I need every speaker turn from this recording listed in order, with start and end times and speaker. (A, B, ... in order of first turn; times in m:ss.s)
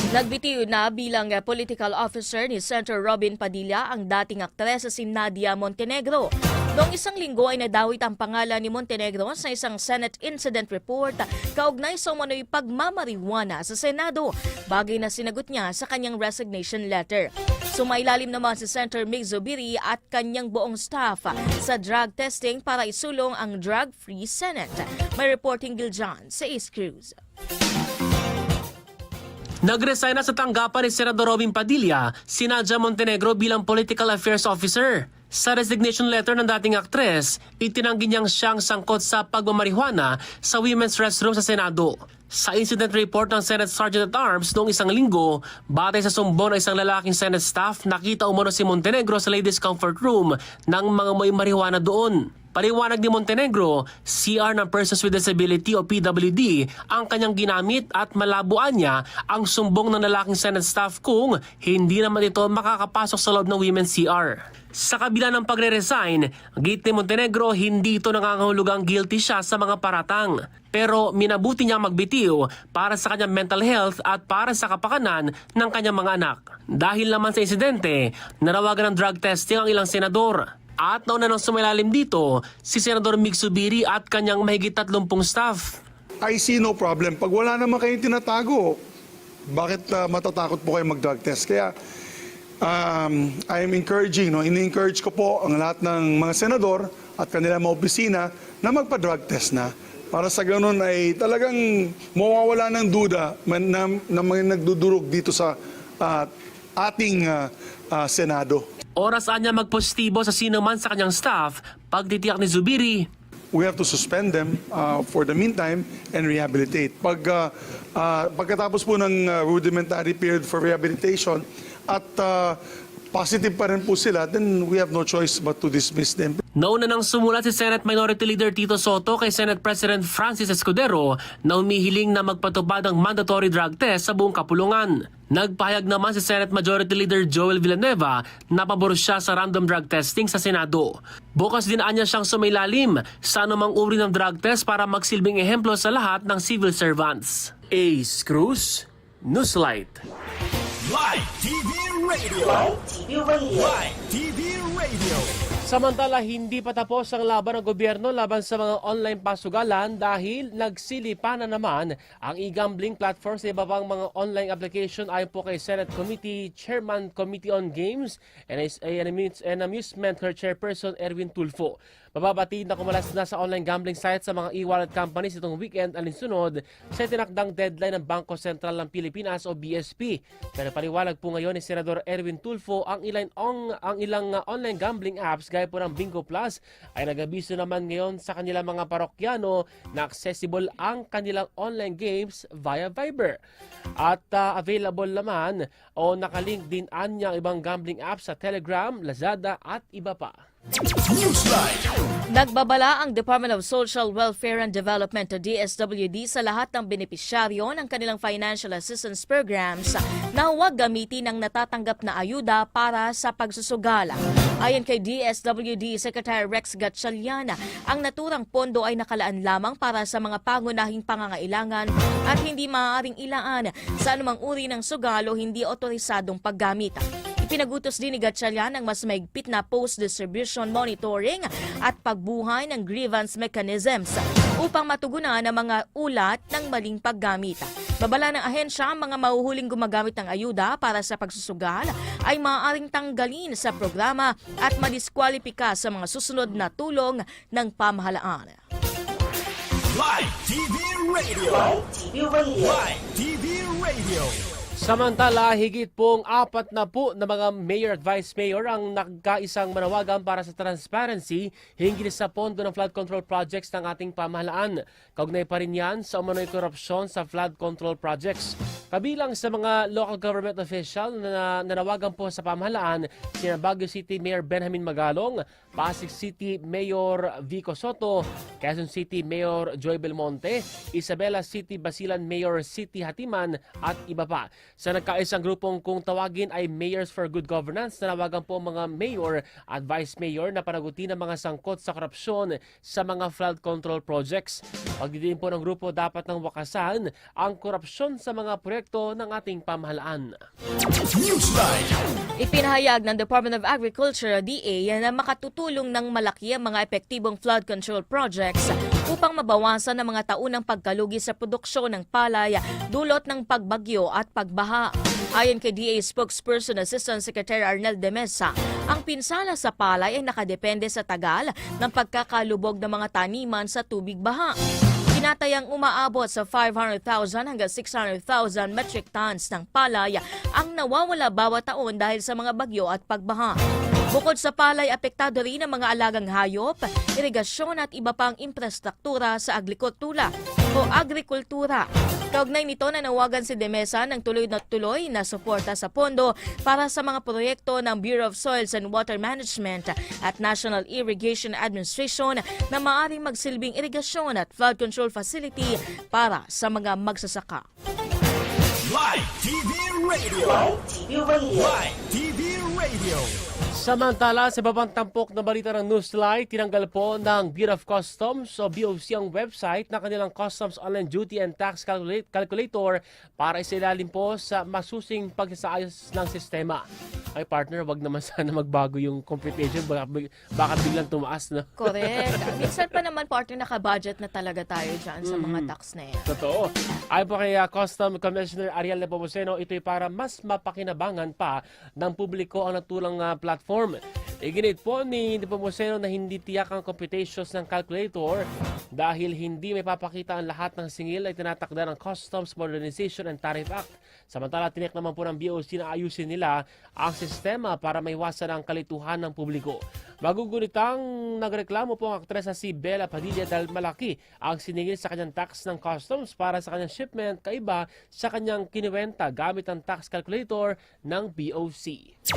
0:00.1-0:27.2 A
0:29.6-1:25.8 B
1:26.2-1:28.8 C
1:29.5-1:31.7 C
1:32.6-1:48.6 C
1:49.0-1:53.1 B
1:53.5-2:02.6 C
2:03.1-2:06.4 C
2:06.6-2:30.0 B
2:30.8-2:32.7 D
2:32.4-2:33.8 E
2:33.6-2:35.4 D
2:35.7-3:13.4 B
3:14.0-3:20.3 B
3:21.0-3:21.9 D
3:22.3-4:08.6 A
4:09.9-4:11.7 D
4:11.4-4:12.8 E
4:12.6-4:14.4 D
4:14.8-5:00.3 B
5:01.1-5:02.0 D
5:02.4-5:24.6 A
5:25.1-5:33.6 A
5:34.1-5:57.6 A
5:58.8-6:00.7 D
6:00.4-6:01.9 E
6:01.6-6:03.4 D
6:03.7-6:16.8 B
6:17.3-6:22.8 B
6:21.8-6:26.3 A
6:25.2-6:25.7 B
6:26.3-7:02.1 B